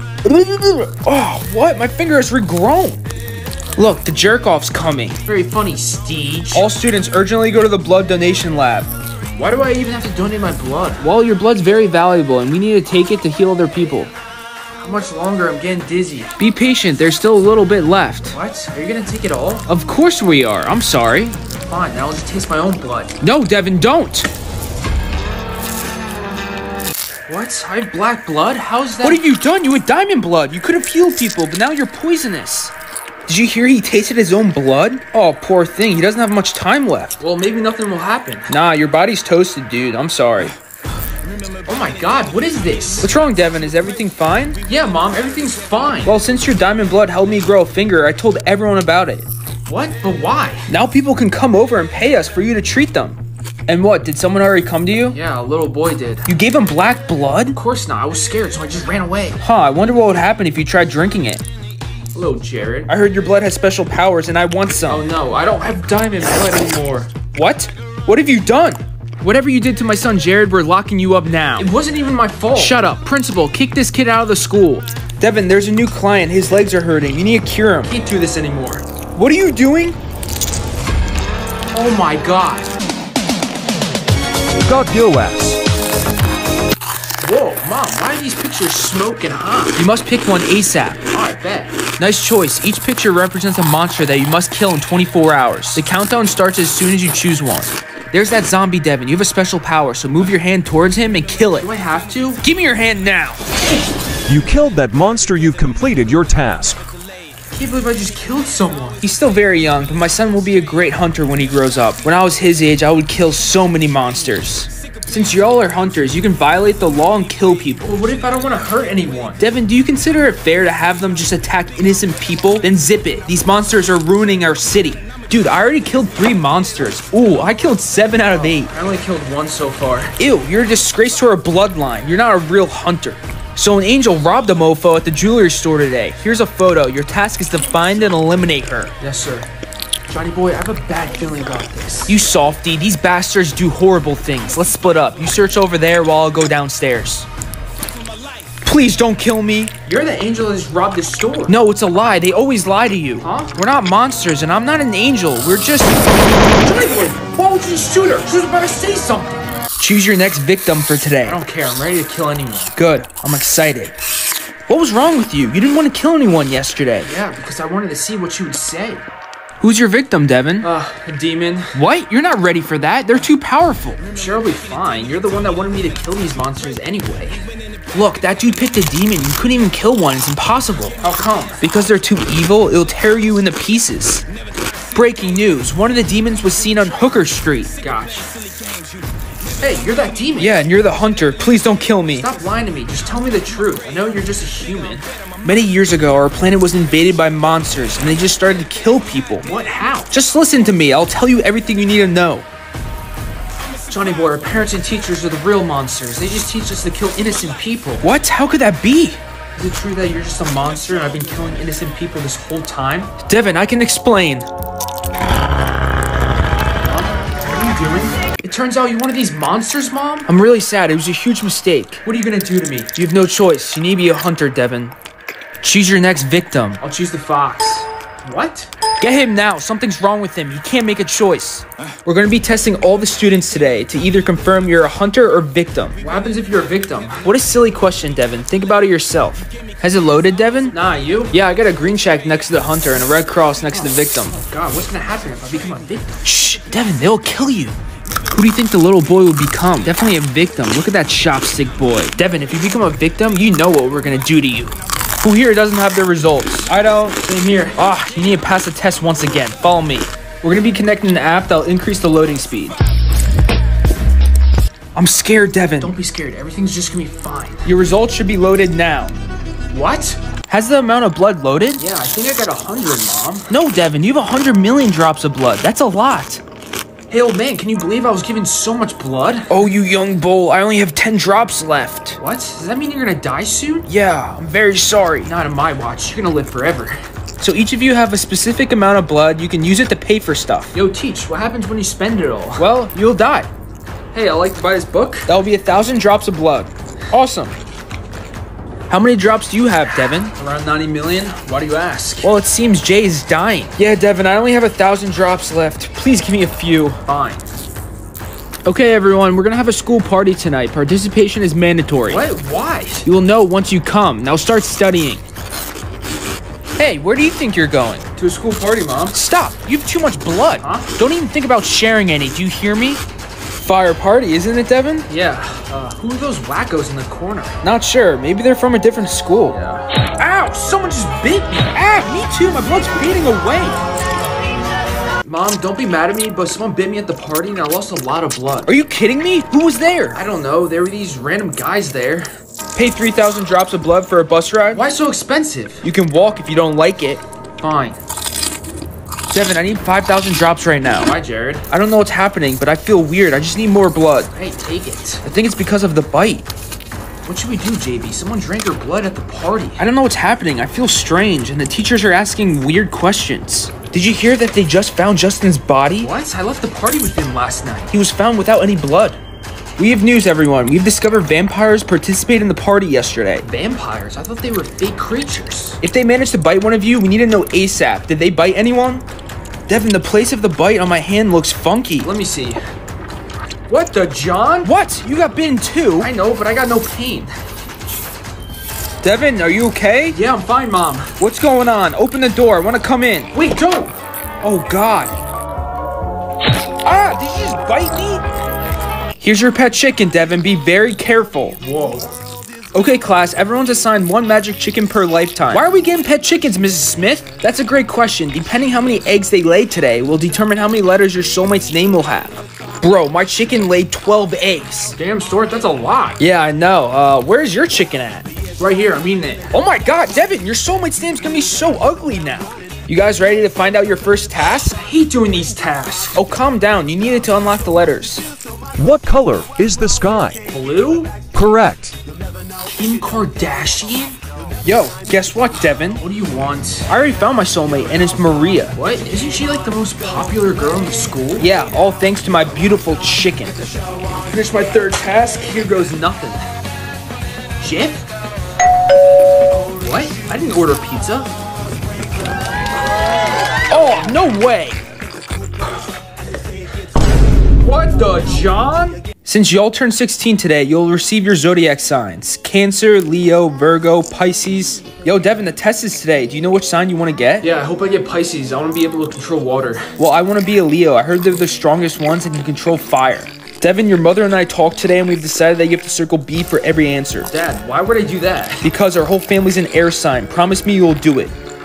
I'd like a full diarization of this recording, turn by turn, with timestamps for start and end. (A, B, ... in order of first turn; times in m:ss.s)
0:00.2-0:03.0 A
0:03.8-0:05.2 A
0:05.2-0:06.7 B
0:06.5-0:08.9 A
0:09.3-0:11.0 B
0:11.0-0:14.1 A
0:14.8-0:16.3 B
0:16.4-0:18.4 A
0:18.3-0:19.7 B
0:19.6-0:21.4 A
0:21.4-0:23.2 B
0:23.2-0:24.3 A
0:27.3-0:29.2 B
0:29.0-0:32.7 A
0:33.3-0:37.2 A
0:37.2-0:38.5 B
0:38.5-0:40.5 A
0:41.6-0:43.1 B
0:43.0-0:44.6 A
0:44.6-0:46.2 B
0:46.0-0:49.2 A
0:49.7-0:50.7 B
0:50.7-0:55.2 A
0:55.1-0:56.3 B
0:56.3-0:57.6 A
0:57.5-0:59.4 B
0:59.4-1:01.4 A
1:02.1-1:02.9 B
1:02.9-1:05.1 A
1:04.9-1:07.1 B
1:07.3-1:11.7 A
1:11.6-1:13.0 B
1:12.5-1:14.1 A
1:13.7-1:14.8 B
1:15.2-1:17.9 A
1:17.8-1:18.8 B
1:19.1-1:20.0 A
1:21.7-1:22.7 B
1:24.6-1:25.6 C
1:27.2-1:29.8 B
1:29.8-1:31.0 A
1:31.1-1:31.8 B
1:32.0-1:41.7 A
1:41.6-1:42.4 B
1:42.4-1:43.5 A
1:44.3-1:46.8 C
1:47.5-1:49.0 B
1:49.0-1:58.0 A
1:57.8-1:59.4 B
1:59.4-2:08.7 A
2:08.2-2:10.2 B
2:10.2-2:18.9 A
2:19.0-2:19.5 B
2:20.1-2:22.2 B
2:22.1-2:27.3 A
2:28.6-2:29.8 A
2:29.8-2:31.6 B
2:31.5-2:36.0 A
2:33.2-2:33.6 B
2:36.5-2:39.4 B
2:39.8-2:41.4 A
2:41.2-2:42.7 B
2:42.7-2:43.9 A
2:44.7-2:47.1 A
2:47.0-2:49.0 B
2:49.6-2:50.7 A
2:50.6-2:51.8 B
2:51.7-2:54.0 A
2:54.0-2:57.4 B
2:57.9-3:01.0 A
3:01.0-3:01.6 B
3:01.6-3:04.2 A
3:04.9-3:07.7 A
3:07.8-3:08.2 B
3:09.6-3:10.6 B
3:10.4-3:12.3 A
3:12.1-3:15.0 B
3:15.4-3:19.5 A
3:19.4-3:20.1 B
3:20.1-3:22.4 A
3:23.9-3:28.1 B
3:28.0-3:29.2 A
3:29.6-3:33.1 B
3:33.2-3:34.5 A
3:36.8-3:40.3 B
3:40.2-3:42.0 A
3:42.0-3:42.9 B
3:42.9-3:44.9 A
3:45.6-3:46.8 A
3:46.8-3:48.7 B
3:49.0-3:56.0 A
3:56.0-3:57.2 B
3:57.2-4:00.8 A
4:00.7-4:01.3 B
4:01.3-4:04.4 A
4:04.2-4:06.2 B
4:06.2-4:07.8 A
4:08.3-4:22.8 A
4:17.2-4:17.8 B
4:24.9-4:25.9 A
4:25.8-4:27.7 B
4:27.6-4:29.1 A
4:29.7-4:30.2 B
4:30.5-4:31.8 A
4:31.8-4:33.5 B
4:33.5-4:36.4 A
4:37.1-4:39.5 B
4:39.5-4:42.2 A
4:42.2-4:43.9 B
4:43.9-4:45.3 A
4:45.2-4:47.0 B
4:47.4-4:50.7 A
4:50.7-4:52.6 B
4:52.6-4:53.5 A
4:54.1-4:55.3 B
4:55.3-4:57.5 A
4:58.9-5:00.3 A
5:00.2-5:02.3 B
5:02.2-5:07.0 A
5:07.0-5:07.5 B
5:08.6-5:12.2 A
5:12.1-5:13.0 B
5:13.0-5:15.2 A
5:16.8-5:18.1 A
5:18.2-5:19.2 B
5:19.1-5:23.0 A
5:20.6-5:20.9 B
5:23.6-5:25.1 A
5:25.1-5:27.6 B
5:27.6-5:29.6 A
5:29.5-5:31.7 B
5:31.7-5:33.8 A
5:35.2-5:38.7 B
5:38.6-5:40.2 A
5:40.1-5:42.3 B
5:42.7-5:44.8 A
5:44.7-5:45.8 B
5:45.8-5:47.2 A
5:47.6-5:48.0 B
5:49.3-5:51.1 A
5:50.9-5:51.7 B
5:51.7-5:54.3 A
5:54.3-5:55.2 B
5:55.2-5:56.4 A
5:57.2-5:59.8 B
5:59.8-6:06.1 A
6:06.0-6:07.9 B
6:07.9-6:09.2 A
6:09.8-6:13.5 A
6:13.4-6:15.8 B
6:15.8-6:19.0 A
6:19.7-6:22.1 A
6:22.0-6:22.6 B
6:23.7-6:24.7 B
6:24.6-6:26.1 A
6:26.0-6:27.3 B
6:29.0-6:30.2 A
6:30.1-6:31.1 B
6:31.2-6:33.3 A
6:33.3-6:34.0 B
6:34.4-6:35.1 A
6:36.8-6:38.2 A
6:39.2-6:41.6 A
6:41.6-6:42.1 B
6:42.7-6:55.0 A
6:45.5-6:46.1 B
6:54.9-6:56.2 B
6:56.2-6:58.3 A
6:58.6-6:59.6 B
6:59.5-7:04.8 A
7:04.6-7:06.2 B
7:06.1-7:08.2 A
7:08.8-7:10.5 C
7:10.5-7:11.1 B
7:11.3-7:12.0 C
7:12.6-7:14.2 B
7:14.6-7:16.0 A
7:15.9-7:16.9 B
7:16.9-7:18.7 A
7:18.7-7:21.5 B
7:21.4-7:23.6 A
7:24.3-7:26.4 B
7:27.6-7:28.0 B
7:29.8-7:31.3 B
7:33.7-7:34.8 A
7:33.9-7:34.5 B
7:37.6-7:39.0 B
7:39.2-7:47.5 A
7:47.4-7:49.9 B
7:50.0-7:57.3 A
7:57.3-7:58.7 B
7:58.6-8:01.3 A